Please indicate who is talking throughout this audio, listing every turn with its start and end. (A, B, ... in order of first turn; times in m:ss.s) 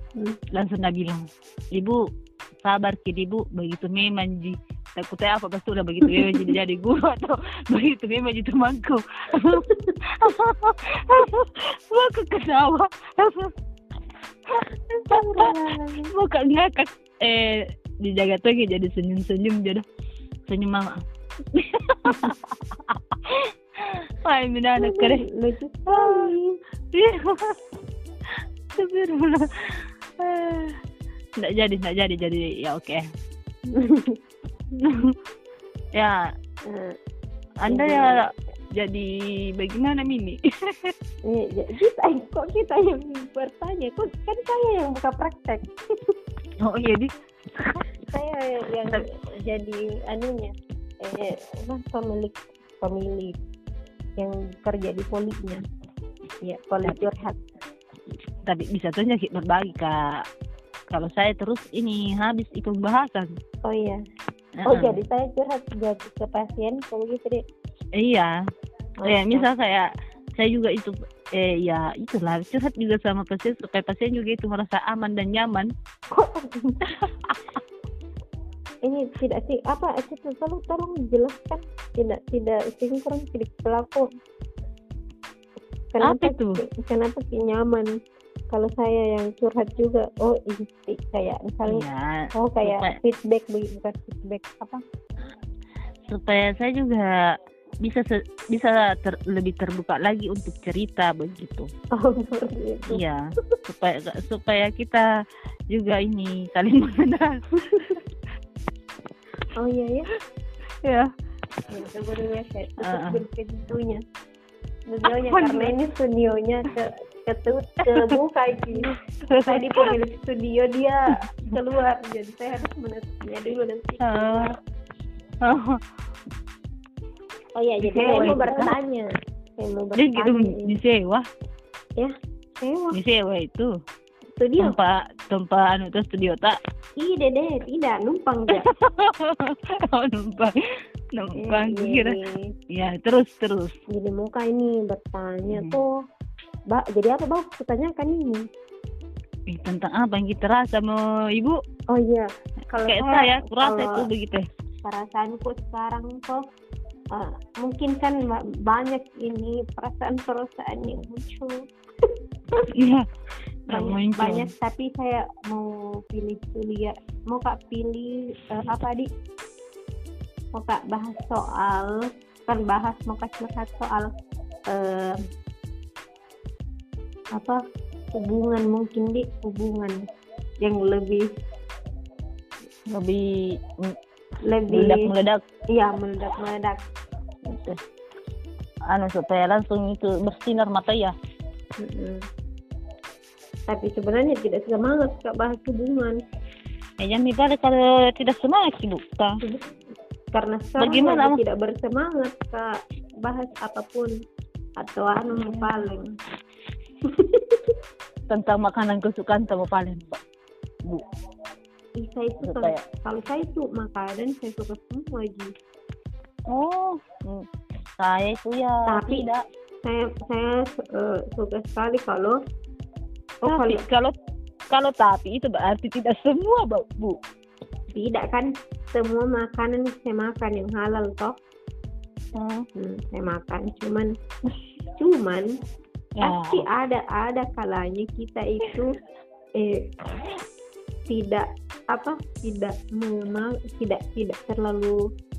0:00.5-0:02.0 A
0:02.6-0:13.5 A
0:09.7-0:10.0 B
0:14.5-0:15.5 A
0:14.9-0:16.1 B
0:16.1-0:19.8 A
0:20.5-0:21.0 A
0:21.5-0:25.3 A
0:24.8-0:26.6 B
0:25.9-0:26.3 A
0:26.9-0:27.6 A
0:28.7-0:30.8 A
0:31.4-0:33.0 A
0:33.7-0:34.2 B
0:34.8-0:35.2 A
0:36.0-0:36.3 A
0:36.7-0:37.0 B
0:37.6-0:40.9 A
0:37.7-0:38.2 B
0:41.3-0:46.1 B
0:46.6-0:47.8 A
0:48.0-0:53.4 B
0:54.2-0:55.6 B
0:56.4-0:57.4 B
0:58.5-1:00.2 A
1:00.9-1:03.4 A
1:03.6-1:04.0 B
1:04.6-1:05.0 A
1:04.7-1:07.4 B
1:08.0-1:08.3 A
1:09.0-1:09.5 B
1:09.1-1:15.7 A
1:16.1-1:16.8 B
1:17.0-1:17.3 A
1:18.8-1:24.1 B
1:25.9-1:27.9 B
1:26.0-1:26.6 A
1:28.5-1:31.8 B
1:31.7-1:33.0 A
1:32.4-1:34.8 B
1:36.1-1:41.7 A
1:41.9-1:43.6 B
1:42.9-1:45.1 A
1:45.7-1:48.0 A
1:47.6-1:47.9 B
1:49.6-1:50.1 B
1:50.8-1:51.1 A
1:51.7-1:54.0 B
1:52.8-1:53.2 A
1:54.9-1:58.9 B
1:55.1-1:55.8 A
1:57.9-1:58.2 A
1:59.0-1:59.9 A
1:59.4-2:04.5 B
2:04.0-2:04.5 A
2:05.4-2:05.8 A
2:07.6-2:10.8 B
2:07.8-2:08.8 A
2:10.0-2:11.2 A
2:12.0-2:13.0 B
2:12.9-2:13.7 A
2:14.4-2:14.8 B
2:14.6-2:16.6 A
2:17.0-2:18.7 B
2:18.5-2:20.6 A
2:21.1-2:22.2 A
2:21.4-2:22.5 B
2:22.7-2:23.8 A
2:23.9-2:25.9 B
2:25.5-2:25.8 A
2:26.7-2:28.4 B
2:29.5-2:31.6 A
2:31.9-2:34.1 B
2:32.8-2:34.5 A
2:34.8-2:36.4 B
2:37.1-2:41.6 B
2:42.7-2:43.1 A
2:43.7-2:49.1 B
2:43.7-2:44.5 A
2:50.6-2:52.0 B
2:52.5-2:54.1 B
2:54.7-2:55.2 B
2:58.1-3:00.0 B
3:00.6-3:01.3 B
3:02.9-3:04.0 A
3:04.5-3:05.1 B
3:04.7-3:05.4 A
3:05.7-3:06.8 B
3:07.4-3:07.8 A
3:08.9-3:11.1 A
3:11.8-3:12.2 B
3:13.7-3:16.2 B
3:17.0-3:19.4 A
3:20.3-3:24.1 B
3:20.8-3:21.4 A
3:24.8-3:26.1 B
3:25.3-3:25.9 A
3:27.0-3:27.6 B
3:28.3-3:30.2 A
3:32.0-3:35.5 B
3:32.4-3:32.8 A
3:36.5-3:37.5 A
3:38.0-3:39.4 A
3:38.9-3:39.3 B
3:39.8-3:42.4 B
3:43.4-3:44.2 A
3:43.4-3:43.8 B
3:44.7-3:47.2 A
3:47.9-3:51.4 B
3:52.4-3:52.7 A
3:52.8-3:54.1 B
3:55.0-3:55.5 B
3:56.2-3:56.7 A
3:56.2-3:59.0 B
3:59.6-3:59.9 B
4:01.1-4:05.0 B